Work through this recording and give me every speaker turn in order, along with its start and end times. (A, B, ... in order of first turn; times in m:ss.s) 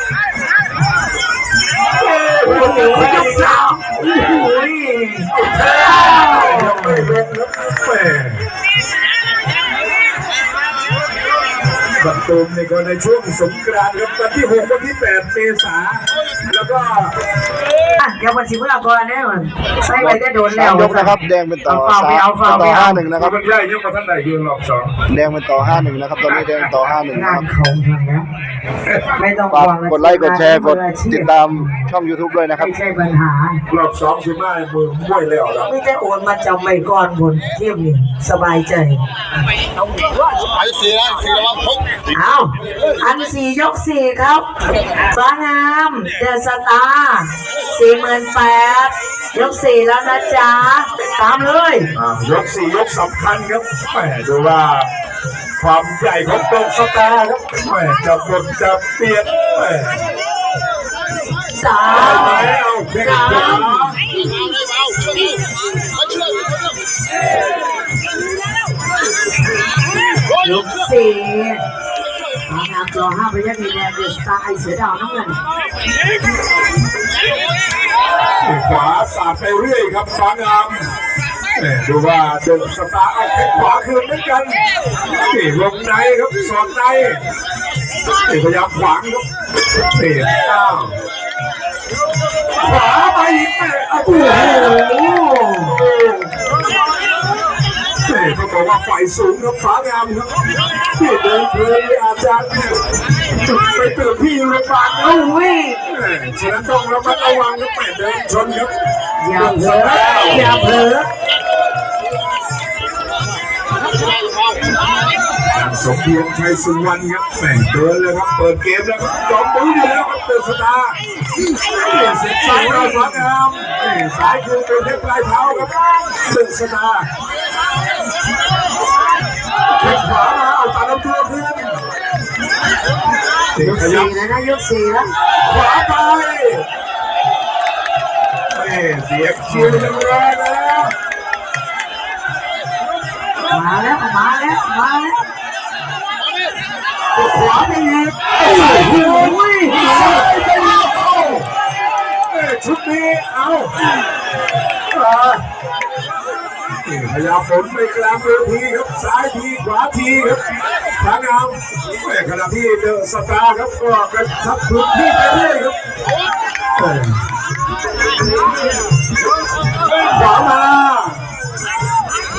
0:02.0-0:03.7 A
0:02.4-0:07.2 B
0:05.3-0:08.5 A
0:12.0-0:17.2 A
0:18.0-0:23.1 B
0:20.0-0:23.4 C
0:23.1-0:25.1 A
0:25.1-0:27.4 C
0:25.7-0:26.7 A
0:27.1-0:28.3 B
0:28.9-0:29.2 A
0:29.1-0:31.9 B
0:29.5-0:32.7 C
0:32.5-0:33.6 B
0:33.7-0:35.7 A
0:35.6-0:39.0 B
0:42.1-0:44.4 B
0:45.0-0:51.9 B
0:51.9-0:54.9 A
0:55.6-1:00.0 A
1:01.5-1:04.0 B
1:02.0-1:04.0 A
1:10.4-1:11.6 B
1:12.5-1:15.4 B
1:18.4-1:20.9 A
1:21.5-1:24.6 A
1:25.2-1:27.2 A
1:28.2-1:29.2 A
1:29.8-1:31.0 A
1:32.6-1:34.8 A
1:34.2-1:35.8 B
1:35.6-1:36.4 A
1:38.0-1:40.3 A
1:40.9-1:42.8 A
1:43.4-1:45.2 A
1:45.0-1:45.8 B
1:45.8-1:48.7 A
1:49.2-1:51.1 B
1:49.3-1:50.6 A
1:55.5-2:01.0 A
2:01.8-2:07.1 A
2:02.3-2:03.2 B
2:09.7-2:11.8 A
2:13.5-2:14.2 A
2:13.6-2:15.1 B
2:15.4-2:16.7 A
2:18.5-2:20.9 A
2:19.5-2:19.9 B
2:23.5-2:25.2 B
2:27.1-2:31.5 A
2:28.5-2:30.2 B
2:32.3-2:33.7 A
2:34.9-2:35.4 A
2:36.8-2:40.4 A
2:41.0-2:45.8 A
2:46.8-2:47.2 A
2:49.9-2:51.2 A